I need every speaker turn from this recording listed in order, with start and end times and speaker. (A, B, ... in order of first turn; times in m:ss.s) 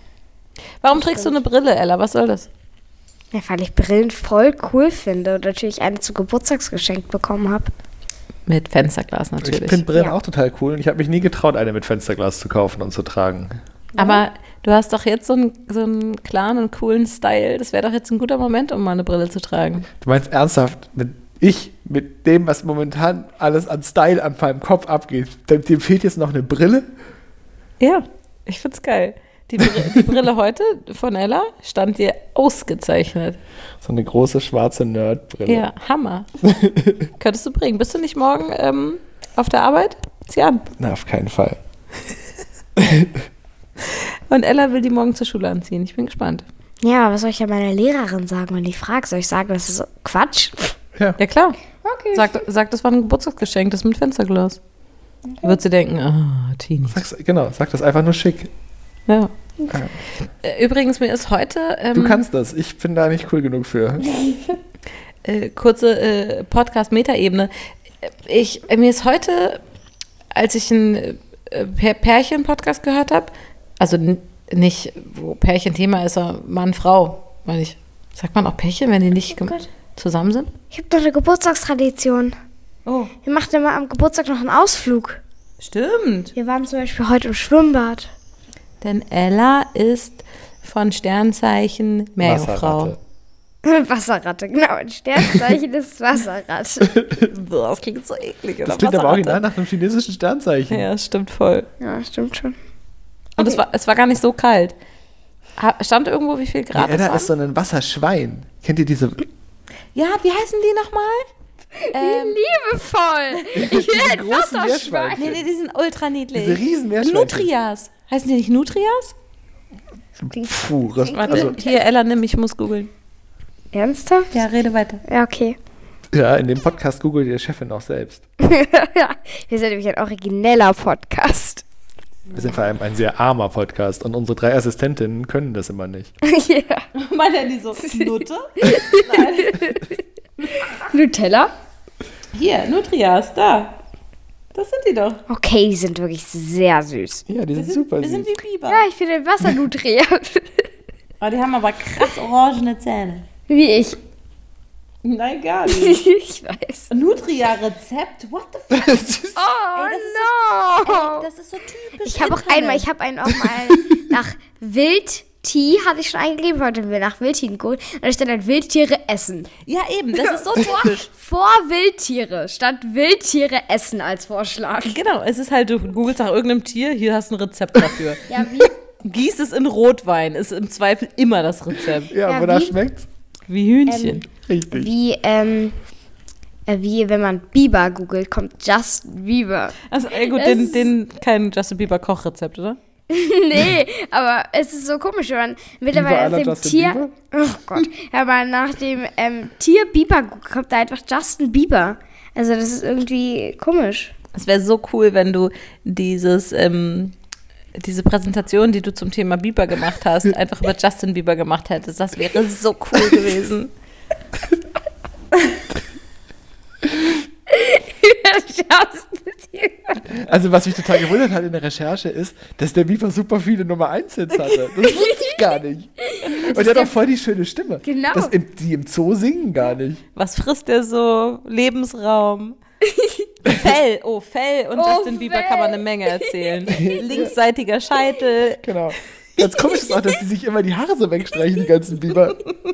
0:00.8-0:02.5 A
0:00.9-0:01.3 B
0:03.3-0:07.7 B
0:08.5-0:09.8 A
0:09.4-0:13.6 C
0:14.0-0:14.2 B
0:14.0-0:19.9 A
0:20.0-0:26.9 C
0:27.8-0:33.4 A
0:33.8-0:35.7 C
0:35.5-0:36.3 A
0:36.4-0:37.1 C
0:37.2-0:40.6 A
0:40.8-0:41.6 C
0:42.8-0:43.2 C
0:43.8-0:46.5 A
0:46.8-0:50.8 B
0:51.2-0:51.6 A
0:51.8-0:52.4 B
0:52.1-0:54.6 A
0:55.3-0:55.6 B
0:55.4-0:57.0 A
0:56.9-0:58.5 C
1:00.4-1:02.2 A
1:01.9-1:04.1 C
1:05.2-1:07.5 A
1:08.0-1:09.6 A
1:10.3-1:20.5 A
1:20.7-1:22.4 B
1:22.9-1:23.1 A
1:23.2-1:25.2 B
1:25.6-1:26.3 A
1:26.4-1:28.1 B
1:28.8-1:32.9 A
1:32.2-1:33.0 C
1:33.6-1:37.0 B
1:37.0-1:37.3 C
1:37.3-1:39.4 A
1:38.6-1:40.9 C
1:40.7-1:41.7 A
1:41.8-1:42.6 B
1:43.4-1:44.8 A
1:45.6-1:47.3 A
1:46.7-1:49.2 C
1:50.0-1:51.3 A
1:51.9-1:52.4 A
1:51.9-1:55.4 B
1:53.5-1:55.4 C
1:55.2-1:59.2 A
1:56.3-1:57.5 C
2:00.2-2:01.6 C
2:00.3-2:01.8 B
2:01.1-2:02.9 A
2:03.7-2:04.3 B
2:04.3-2:05.0 A
2:05.1-2:05.6 B
2:06.1-2:08.2 C
2:08.4-2:11.6 B
2:12.3-2:16.1 C
2:16.2-2:16.9 B
2:17.0-2:19.8 A
2:17.8-2:20.0 B
2:20.5-2:21.5 B
2:22.3-2:23.8 A
2:24.5-2:25.2 A
2:25.3-2:27.2 B
2:27.3-2:28.3 C
2:27.6-2:28.8 A
2:28.7-2:30.7 B
2:31.2-2:33.2 A
2:33.5-2:34.0 B
2:35.0-2:36.0 A
2:35.7-2:36.9 B
2:36.9-2:39.0 A
2:38.7-2:39.4 C
2:39.4-2:41.3 B
2:39.7-2:40.3 A
2:40.8-2:42.8 A
2:42.0-2:49.5 B
2:43.4-2:44.0 C
2:49.7-2:51.1 A
2:50.2-2:55.0 B
2:54.9-2:58.2 A
2:58.3-2:58.8 B
2:59.0-3:02.1 A
3:02.1-3:03.1 C
3:02.3-3:02.8 B
3:03.5-3:04.2 A
3:03.9-3:05.8 B
3:04.4-3:04.9 C
3:06.7-3:10.9 B
3:09.9-3:12.8 A
3:13.1-3:24.1 B
3:15.9-3:17.1 C
3:24.4-3:27.2 A
3:27.8-3:33.7 A
3:37.5-3:40.2 B
3:40.1-3:50.0 C
3:44.8-3:45.5 B
3:46.1-3:46.9 B
3:47.8-3:48.3 B
3:50.2-3:52.6 A
3:52.8-3:53.3 B
3:53.5-3:58.6 A
3:54.8-3:56.8 B
3:56.7-3:57.3 C
3:58.6-4:02.4 C